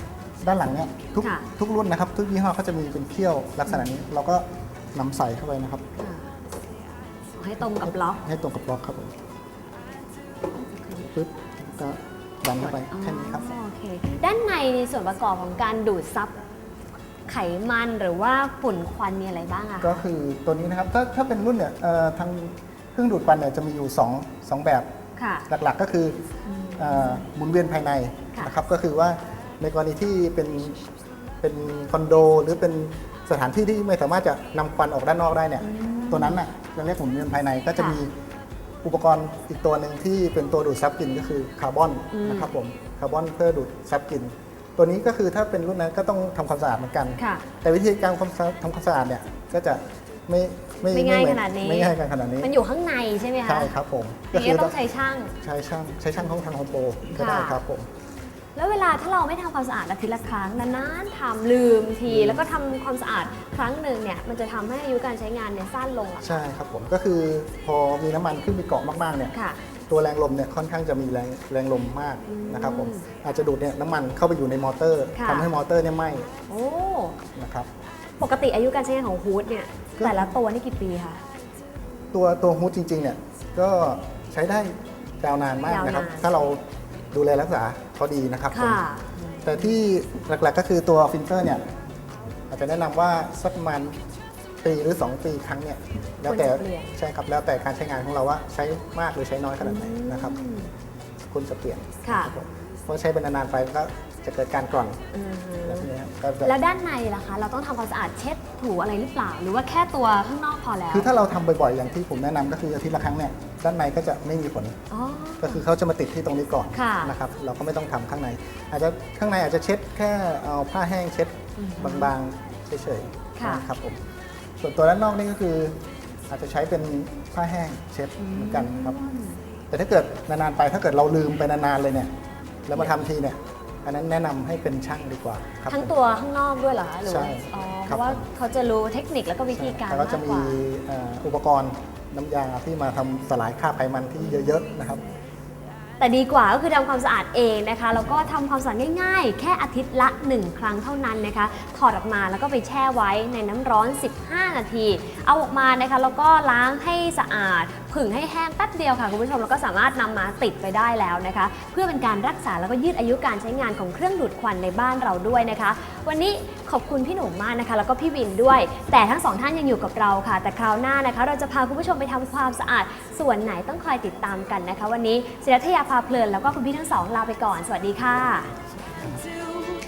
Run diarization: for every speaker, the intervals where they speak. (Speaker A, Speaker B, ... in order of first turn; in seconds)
Speaker A: 0.4-5.8, 7.8-9.2, 11.1-13.5, 19.8-24.9, 25.5-26.2, 26.8-30.8, 31.4-38.1, 38.8-52.5, 53.5-54.8, 55.4-57.9, 62.1-62.4, 66.2-69.3, 69.9-76.3, 77.3-77.7, 80.0-80.3, 82.1-86.6, 87.1-88.8, 89.5-91.6, 92.5-94.0, 94.6-100.4, 101.3-105.0, 105.6-106.5, 110.9-114.8, 115.4-124.0, 124.6-125.7, 126.3-129.0, 129.7-132.1, 132.7-135.9, 137.1-138.3, 139.5-145.0
Speaker B: 1.2-1.5, 6.0-6.3, 7.4-8.2, 10.6-11.1, 12.6-16.4, 17.3-20.0, 25.2-25.5, 26.4-27.2, 35.6-36.4, 37.8-38.0, 42.1-42.5, 47.2-47.4, 50.9-53.7, 54.3-55.3, 57.1-57.6, 58.6-66.4, 72.3-73.0, 75.2-75.5, 76.5-77.2, 78.2-81.2, 85.7-86.3, 88.5-89.8, 96.3-97.0, 99.6-100.7, 102.0-102.3, 105.1-105.9, 106.4-111.1, 114.9-115.6, 116.7-117.2, 121.6-122.1, 123.4-123.7, 128.2-129.4, 135.7-140.6, 144.2-144.8, 146.0-178.5